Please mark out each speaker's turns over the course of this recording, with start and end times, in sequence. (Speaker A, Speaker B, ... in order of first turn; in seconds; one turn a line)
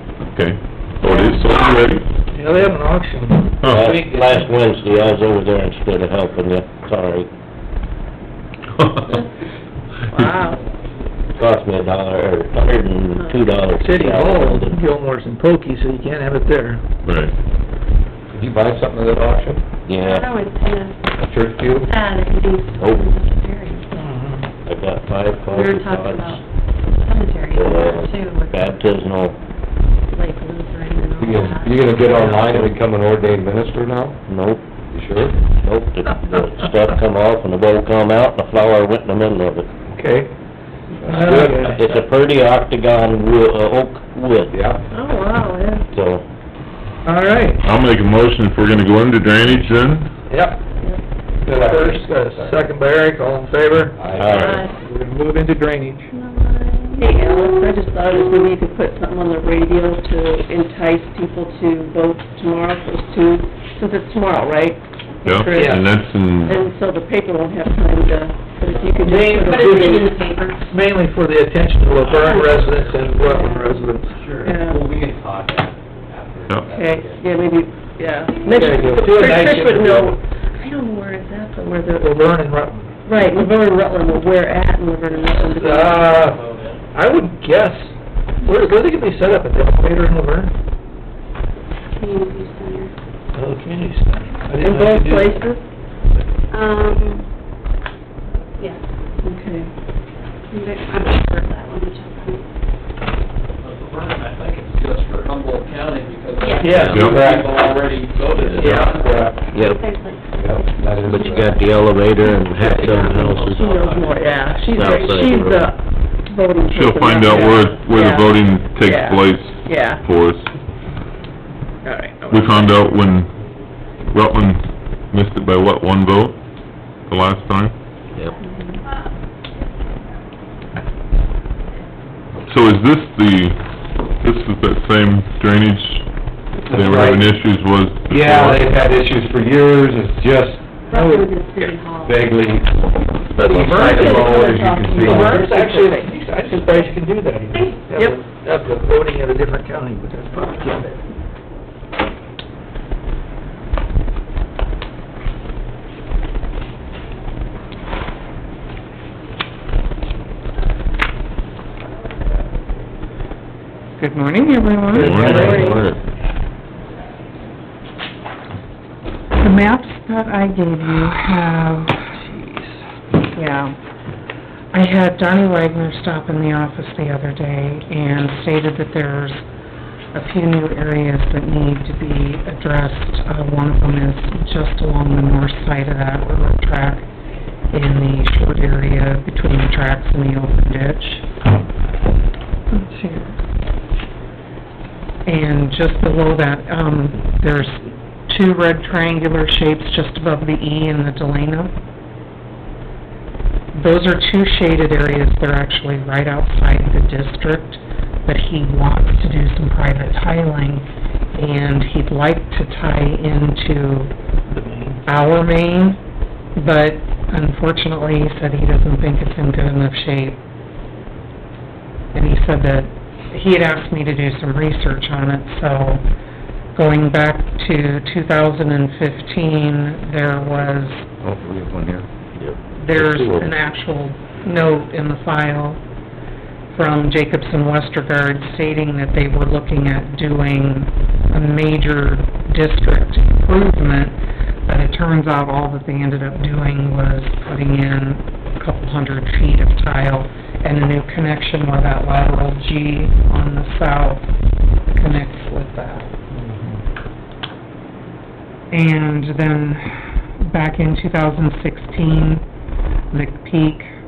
Speaker A: 0.2-2.1
Speaker B: 1.0-1.4
Speaker C: 2.3-3.6
Speaker A: 3.6-4.0
Speaker D: 3.7-7.3
Speaker A: 8.8-9.2
Speaker B: 10.1-10.6
Speaker D: 11.4-14.8
Speaker B: 13.2-13.6
Speaker C: 13.8-16.8
Speaker A: 17.0-17.3
Speaker E: 18.3-19.6
Speaker D: 19.9-20.3
Speaker F: 20.0-21.0
Speaker E: 21.2-21.9
Speaker F: 21.8-23.9
Speaker D: 22.8-23.1
Speaker C: 23.9-24.4
Speaker D: 24.6-26.4
Speaker F: 25.5-28.9
Speaker D: 27.5-29.4
Speaker F: 30.1-32.1
Speaker E: 31.2-34.2
Speaker C: 32.1-32.5
Speaker D: 32.2-32.7
Speaker D: 34.3-34.6
Speaker E: 34.9-35.4
Speaker D: 35.5-39.7
Speaker E: 39.9-40.3
Speaker E: 41.1-41.8
Speaker C: 41.1-41.8
Speaker D: 41.2-44.6
Speaker E: 44.5-44.8
Speaker B: 44.9-45.9
Speaker D: 45.9-46.2
Speaker C: 47.0-47.7
Speaker A: 47.6-50.1
Speaker C: 50.3-50.6
Speaker E: 51.4-52.7
Speaker C: 51.5-54.0
Speaker E: 54.0-54.7
Speaker D: 54.2-54.6
Speaker C: 54.7-56.1
Speaker F: 56.1-57.0
Speaker B: 56.9-70.2
Speaker A: 65.2-66.6
Speaker C: 65.5-65.9
Speaker C: 69.0-74.2
Speaker F: 69.4-70.6
Speaker G: 72.0-73.2
Speaker B: 72.2-72.6
Speaker B: 73.1-73.8
Speaker G: 74.2-77.2
Speaker B: 74.4-74.9
Speaker A: 76.5-76.7
Speaker B: 76.7-82.4
Speaker C: 78.4-80.2
Speaker F: 78.5-78.9
Speaker C: 82.0-82.9
Speaker B: 83.1-86.3
Speaker C: 85.5-90.5
Speaker G: 86.3-86.8
Speaker F: 92.0-92.9
Speaker C: 93.3-95.4
Speaker B: 94.6-95.6
Speaker F: 96.5-97.3
Speaker B: 99.2-99.7
Speaker F: 100.5-102.4
Speaker G: 103.6-109.1
Speaker F: 106.4-106.8
Speaker C: 106.6-107.1
Speaker D: 106.6-107.1
Speaker A: 106.9-107.3
Speaker E: 107.0-107.6
Speaker E: 108.6-109.4
Speaker B: 108.6-108.9
Speaker D: 109.5-109.8
Speaker F: 109.6-111.7
Speaker E: 110.4-111.6
Speaker D: 111.0-114.1
Speaker B: 112.3-120.0
Speaker D: 114.6-115.7
Speaker A: 116.7-120.5
Speaker B: 121.8-122.8
Speaker A: 122.3-123.4
Speaker A: 124.1-126.4
Speaker A: 127.1-127.8
Speaker B: 128.5-128.8
Speaker A: 132.4-136.2
Speaker E: 136.6-137.4
Speaker A: 136.7-138.7
Speaker E: 138.1-140.9
Speaker F: 140.9-142.2
Speaker C: 140.9-141.3
Speaker E: 141.6-145.5
Speaker C: 143.4-144.5
Speaker B: 143.7-146.9
Speaker C: 145.1-150.9
Speaker F: 147.5-147.8
Speaker B: 147.9-148.2
Speaker H: 164.0-165.6
Speaker A: 164.9-165.7
Speaker C: 165.0-165.7
Speaker D: 165.0-166.0
Speaker B: 165.1-165.9
Speaker H: 169.3-172.0
Speaker C: 172.2-172.8
Speaker H: 173.3-173.8
Speaker H: 174.7-179.4
Speaker H: 180.1-187.1
Speaker H: 187.7-191.3
Speaker H: 192.7-193.3
Speaker H: 195.3-201.7
Speaker H: 203.7-214.1
Speaker C: 214.5-215.0
Speaker H: 215.1-216.0
Speaker H: 216.6-220.4
Speaker H: 222.1-226.0
Speaker H: 226.8-231.0
Speaker E: 231.2-232.1
Speaker D: 232.4-233.5
Speaker H: 232.8-235.8
Speaker H: 236.7-244.2
Speaker H: 244.7-254.2
Speaker H: 254.9-256.1
Speaker H: 258.7-262.4
Speaker H: 263.1-263.9